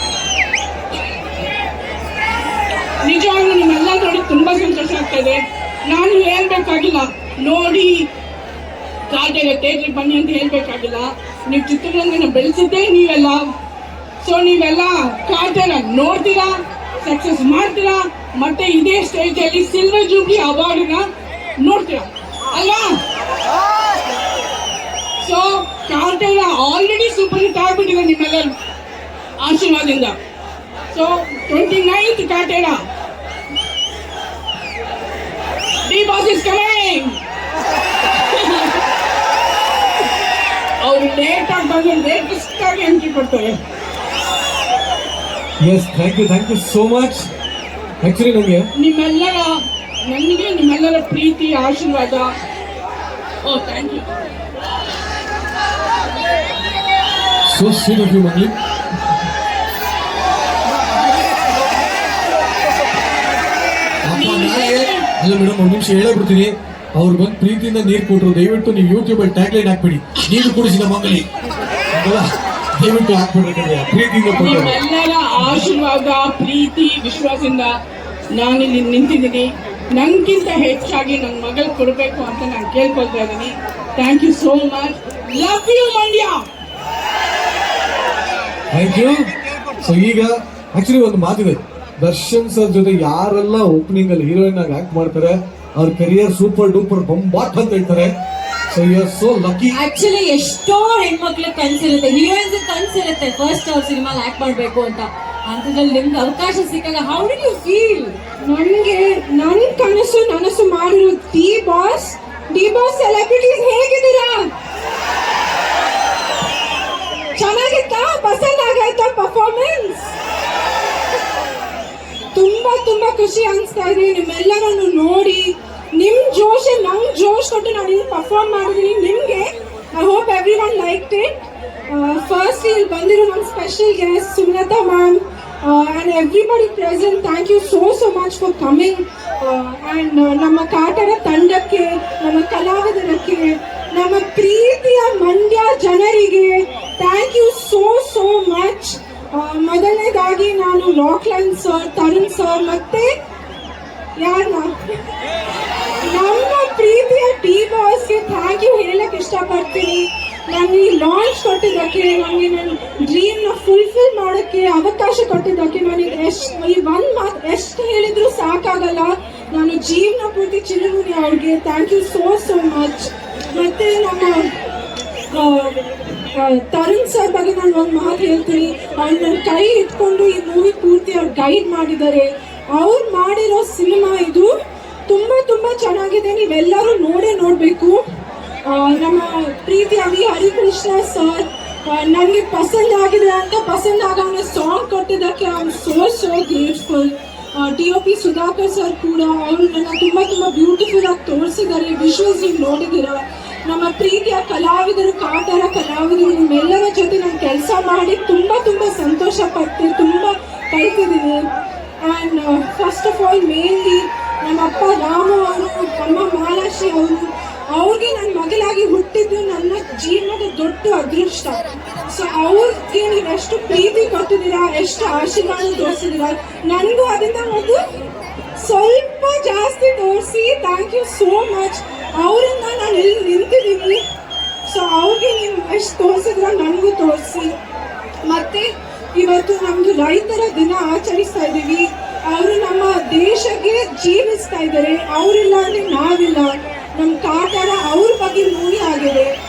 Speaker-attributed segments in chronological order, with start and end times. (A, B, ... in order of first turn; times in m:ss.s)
0:03.0-0:08.1 A
0:09.1-0:13.5 A
0:14.2-0:21.1 A
0:21.6-0:23.0 A
0:25.2-0:28.5 A
0:29.4-0:30.2 A
0:30.9-0:32.8 A
0:35.9-0:37.2 A
0:38.2-0:38.8 A
0:40.8-0:43.6 A
0:45.6-0:47.3 B
0:48.0-0:48.7 B
0:48.8-0:52.3 A
0:53.4-0:54.1 A
0:57.5-0:58.6 B
1:04.0-1:11.3 B
1:04.1-1:05.1 A
1:11.9-1:12.2 B
1:12.8-1:14.8 B
1:14.3-1:17.8 A
1:18.3-1:26.4 A
1:28.7-1:29.3 B
1:29.8-1:38.1 B
1:38.7-1:39.8 B
1:39.7-1:48.2 C
1:48.4-1:54.5 D
1:57.4-2:00.1 D
2:02.3-2:33.1 D
2:34.2-2:34.8 D
2:36.0-2:54.5 D
2:55.3-2:55.8 D
2:56.4-3:04.5 D
3:05.1-3:08.0 D
3:08.6-3:31.5 D
3:32.0-3:47.8 D
3:48.6-3:54.0 D
3:54.7-3:57.6 D
3:58.3-4:09.3 D